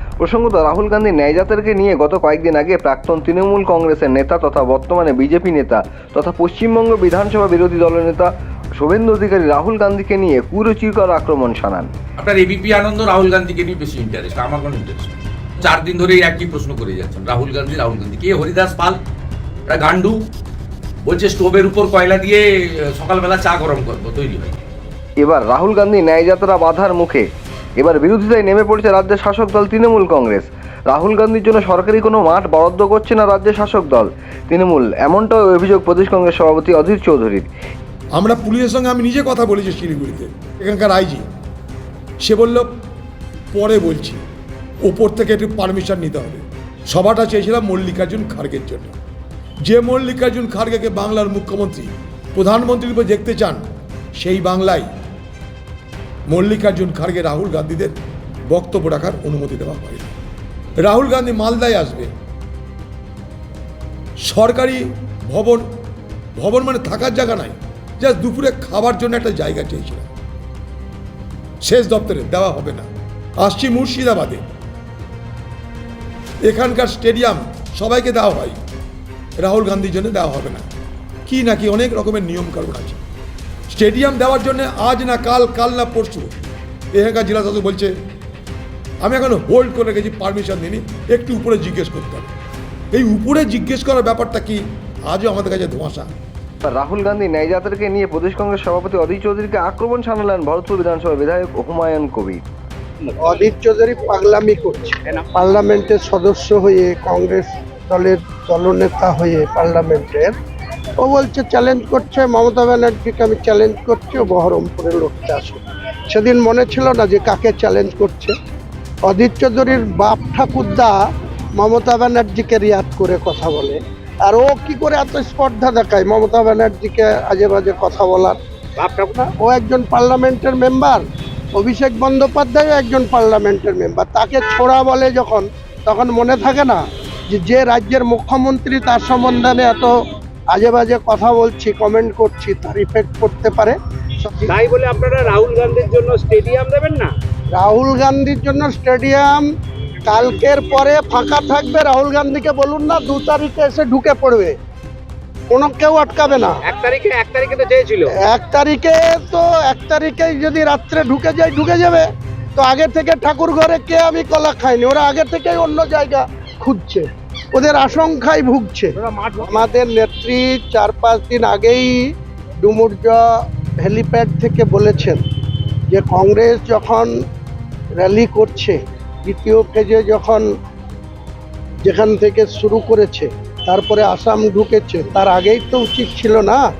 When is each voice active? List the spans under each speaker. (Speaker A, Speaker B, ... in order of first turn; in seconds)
Speaker A: 0.2-11.9, 25.2-27.2, 27.8-37.5, 96.6-102.4
Speaker B: 12.2-19.0, 19.7-20.2, 21.1-24.6
Speaker C: 38.1-41.2, 42.2-42.7, 43.5-44.2, 44.8-48.9, 49.6-53.6, 54.2-54.9, 56.3-58.0, 58.5-60.1, 60.8-62.1, 64.2-65.7, 66.3-70.0, 71.6-72.9, 73.4-74.4, 76.4-78.6, 79.4-80.7, 81.2-83.0, 83.7-86.3, 86.9-87.9, 89.0-92.3, 92.9-96.1
Speaker D: 103.2-110.3, 111.0-118.3, 119.0-121.0, 121.6-128.4, 129.3-131.0, 131.5-139.9, 140.5-144.4, 147.5-149.4, 150.0-154.6, 155.5-156.6, 158.1-172.1, 172.6-173.2, 173.8-175.2, 175.9-177.1, 177.9-180.4, 181.8-186.6
Speaker E: 128.8-129.2, 144.6-147.1, 156.7-158.1